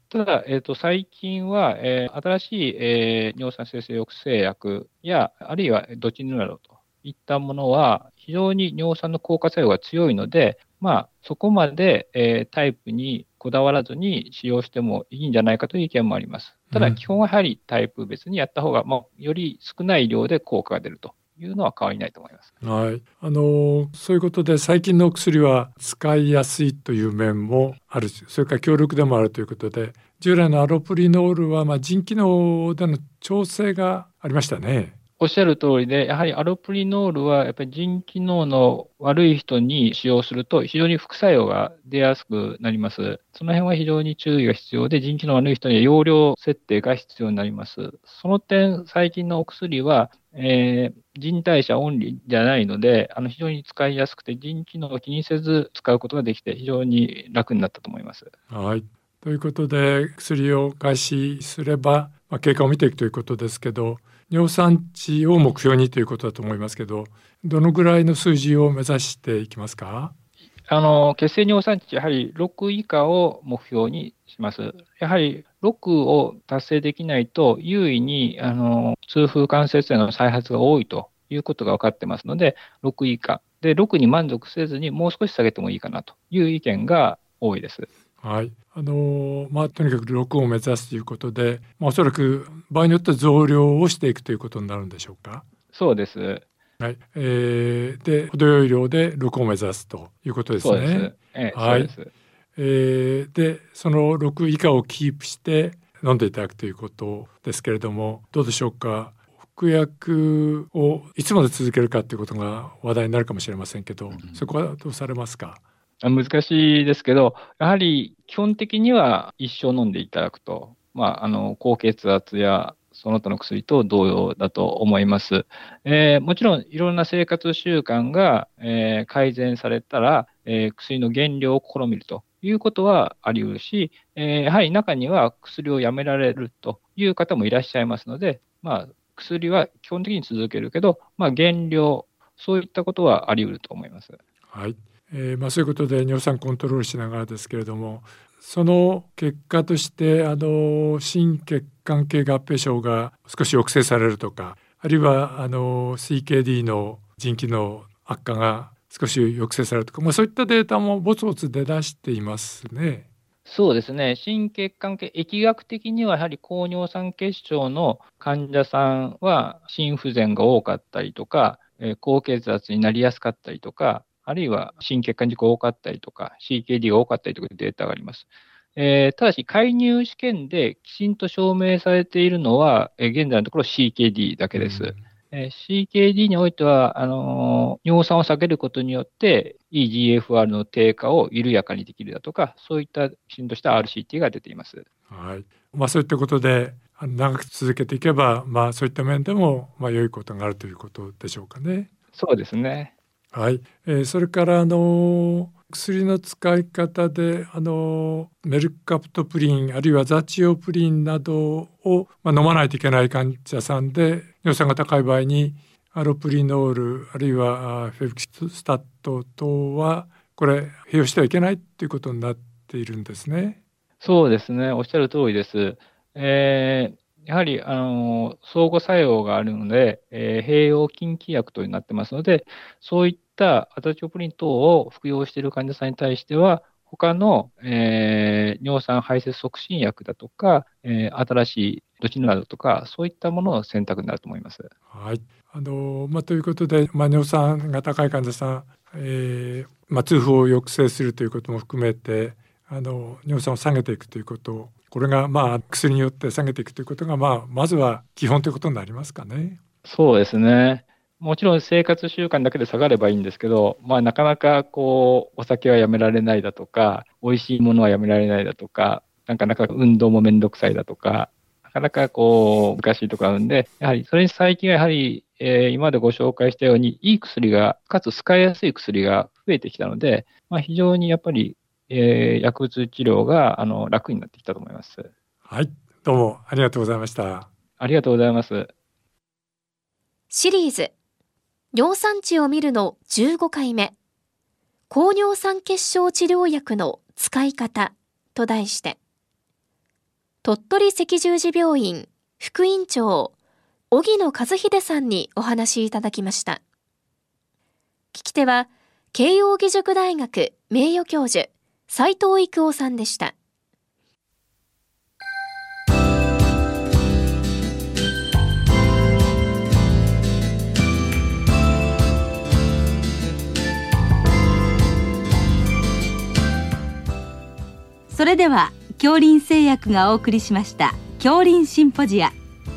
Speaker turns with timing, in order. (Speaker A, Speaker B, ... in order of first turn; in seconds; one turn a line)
Speaker A: 0.1-22.5
Speaker B: 16.7-17.0
Speaker B: 22.6-35.0
Speaker A: 35.2-58.3
Speaker B: 58.5-70.1
Speaker A: 70.7-87.9
Speaker B: 88.2-95.5
Speaker A: 95.7-96.5
Speaker B: 96.8-101.9
Speaker A: 100.6-102.1
Speaker B: 102.6-115.6
Speaker A: 114.1-114.5
Speaker A: 116.0-144.2
Speaker B: 144.5-163.1
Speaker A: 163.4-194.9
Speaker B: 184.5-185.0
Speaker B: 195.1-201.9
Speaker A: 202.1-202.9
Speaker B: 203.3-223.6
Speaker A: 224.0-244.7
Speaker B: 244.9-259.6
Speaker A: 259.9-285.1
Speaker B: 285.5-287.5
Speaker A: 287.8-288.7
Speaker C: 290.3-290.9
Speaker C: 291.7-293.9
Speaker C: 294.9-299.0
Speaker C: 300.4-303.3
Speaker C: 303.9-306.6
Speaker C: 308.1-313.3
Speaker D: 328.1-332.4